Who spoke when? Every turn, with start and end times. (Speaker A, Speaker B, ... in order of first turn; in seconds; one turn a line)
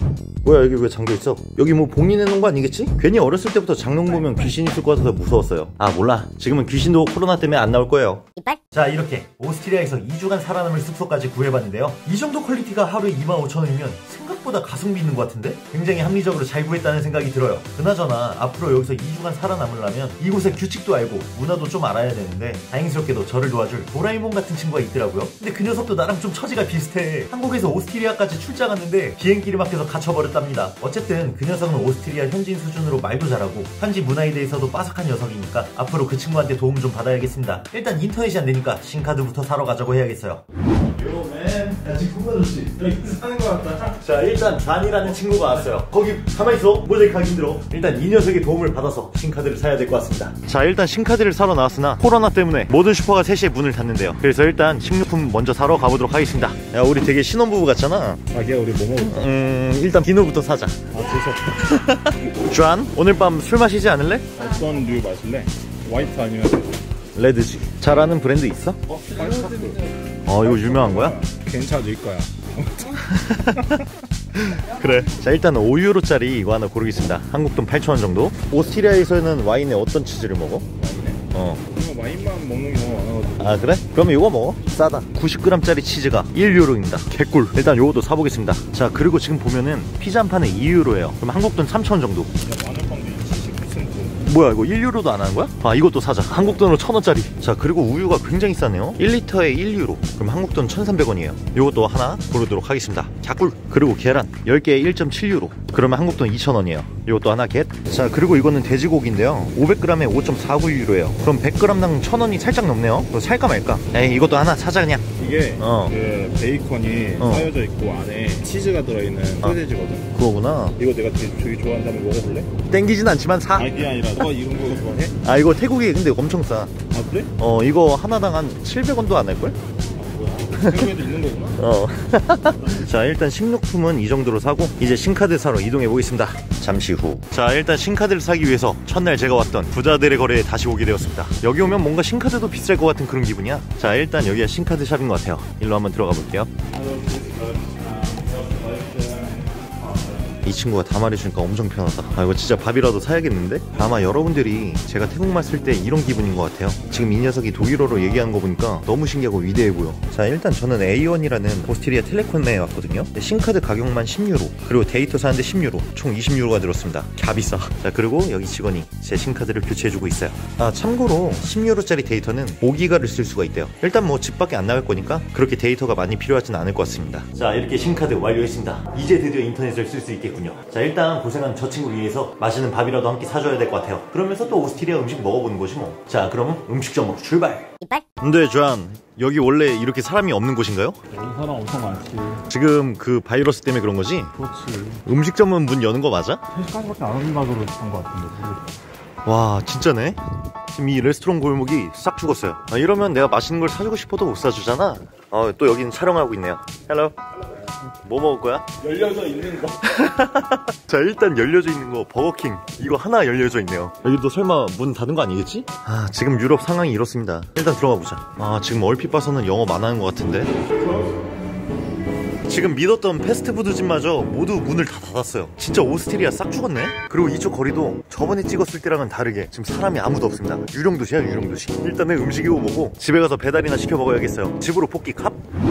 Speaker A: 0.4-40.4
Speaker B: 41.0-44.0
Speaker A: 43.9-58.2
Speaker B: 58.3-59.3
Speaker A: 59.0-64.3
Speaker B: 60.9-61.6
Speaker B: 64.3-66.8
Speaker A: 67.2-68.8
Speaker B: 68.9-69.9
Speaker A: 70.2-71.2
Speaker B: 70.4-73.8
Speaker A: 73.0-80.7
Speaker B: 80.8-83.6
Speaker A: 81.3-81.6
Speaker A: 83.4-92.3
Speaker B: 92.5-94.2
Speaker A: 94.2-115.1
Speaker B: 115.2-120.1
Speaker A: 115.6-115.9
Speaker A: 117.2-117.5
Speaker A: 120.1-120.8
Speaker B: 120.8-122.5
Speaker A: 122.7-123.8
Speaker B: 123.5-125.2
Speaker A: 125.2-126.7
Speaker B: 126.9-127.3
Speaker A: 127.4-129.6
Speaker B: 129.9-131.6
Speaker A: 130.6-130.9
Speaker A: 131.6-146.5
Speaker B: 146.7-150.4
Speaker A: 150.4-191.0
Speaker B: 191.1-192.4
Speaker A: 192.5-194.4
Speaker B: 194.4-195.0
Speaker A: 195.0-196.4
Speaker B: 196.5-198.8
Speaker A: 199.2-207.2
Speaker A: 208.0-208.7
Speaker B: 208.8-209.8
Speaker A: 209.8-220.6
Speaker A: 222.5-235.4